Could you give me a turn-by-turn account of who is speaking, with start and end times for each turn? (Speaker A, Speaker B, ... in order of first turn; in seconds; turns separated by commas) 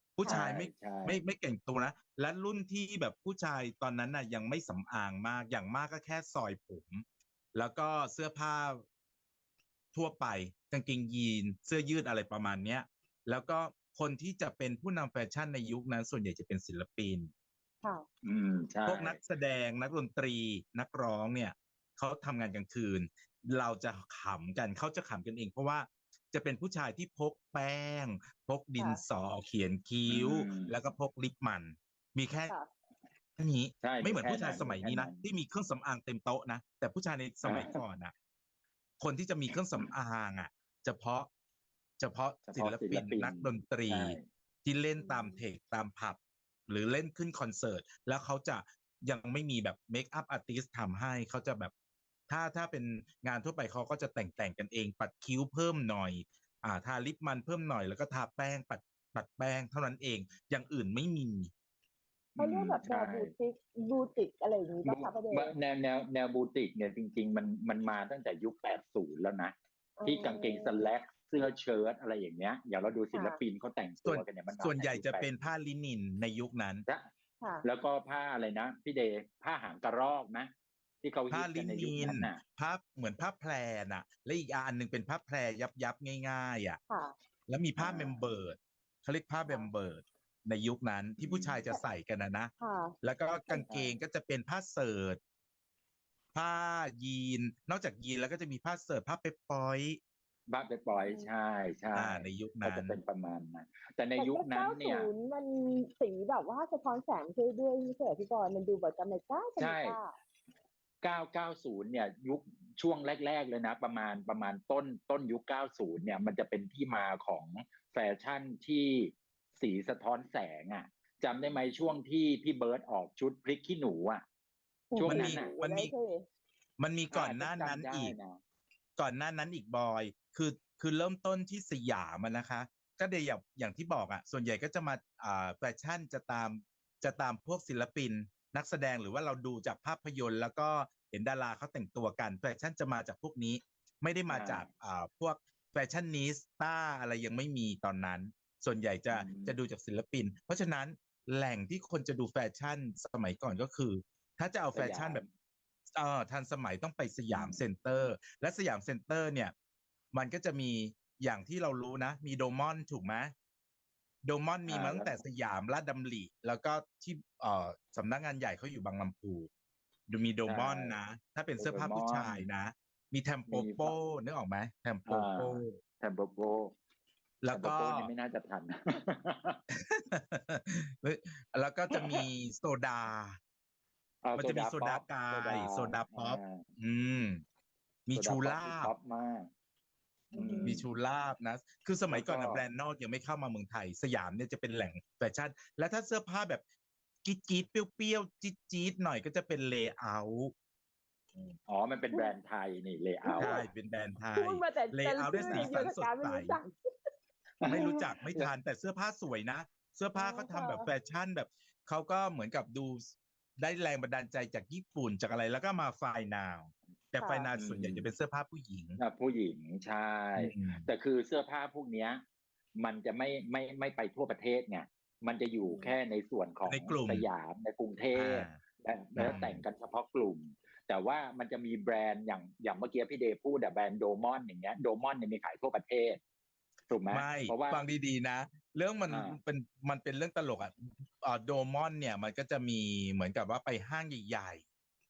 Speaker A: 0.2-7.0, Speaker B: 0.2-1.2, Speaker A: 7.5-8.8, Speaker A: 9.9-17.3, Speaker B: 18.2-19.2, Speaker A: 18.9-32.5, Speaker B: 30.1-30.7, Speaker A: 33.4-38.1, Speaker B: 33.8-35.2, Speaker B: 37.5-37.7, Speaker A: 39.0-41.3, Speaker A: 42.0-51.7, Speaker B: 42.5-44.2, Speaker C: 45.0-45.4, Speaker A: 52.3-61.5, Speaker B: 62.4-63.3, Speaker C: 62.4-65.5, Speaker B: 64.8-69.5, Speaker C: 70.0-70.8, Speaker B: 70.1-75.3, Speaker A: 74.0-76.8, Speaker B: 77.6-80.5, Speaker B: 81.0-82.4, Speaker A: 81.3-86.8, Speaker A: 87.5-95.2, Speaker B: 87.8-88.2, Speaker B: 91.2-91.6, Speaker C: 92.6-93.0, Speaker B: 93.5-94.0, Speaker A: 96.3-100.0, Speaker B: 100.5-105.1, Speaker C: 101.0-101.3, Speaker A: 101.9-103.0, Speaker C: 104.2-110.2, Speaker B: 109.6-110.0, Speaker B: 111.0-124.2, Speaker C: 124.9-126.2, Speaker B: 125.0-125.5, Speaker A: 125.0-125.9, Speaker A: 126.8-128.2, Speaker B: 127.1-128.4, Speaker A: 129.0-155.2, Speaker B: 144.3-144.7, Speaker B: 149.1-149.6, Speaker B: 154.8-155.3, Speaker A: 155.9-159.5, Speaker B: 157.3-157.6, Speaker A: 160.1-163.3, Speaker A: 164.2-169.5, Speaker B: 164.7-165.1, Speaker A: 170.1-175.7, Speaker B: 170.5-170.9, Speaker B: 171.6-172.4, Speaker B: 173.5-173.9, Speaker B: 175.1-176.8, Speaker A: 177.4-178.1, Speaker B: 177.5-179.6, Speaker A: 179.7-183.4, Speaker B: 181.9-182.3, Speaker B: 184.2-186.6, Speaker A: 184.4-187.4, Speaker A: 188.1-188.9, Speaker B: 188.2-189.5, Speaker C: 190.3-190.8, Speaker B: 190.3-190.8, Speaker A: 190.6-196.6, Speaker B: 192.1-192.6, Speaker A: 197.2-200.5, Speaker B: 201.7-203.6, Speaker C: 203.2-203.6, Speaker A: 203.4-206.6, Speaker C: 204.4-206.7, Speaker B: 205.4-205.7, Speaker B: 207.6-208.5, Speaker A: 207.7-219.0, Speaker C: 210.2-210.9, Speaker C: 217.2-217.5, Speaker B: 217.6-218.1, Speaker B: 219.0-222.2, Speaker A: 220.4-220.9, Speaker B: 222.8-236.2, Speaker C: 225.7-225.9, Speaker A: 226.7-227.3, Speaker A: 228.1-228.6, Speaker A: 229.2-229.6, Speaker B: 236.9-237.8, Speaker A: 237.1-244.7, Speaker B: 239.1-239.4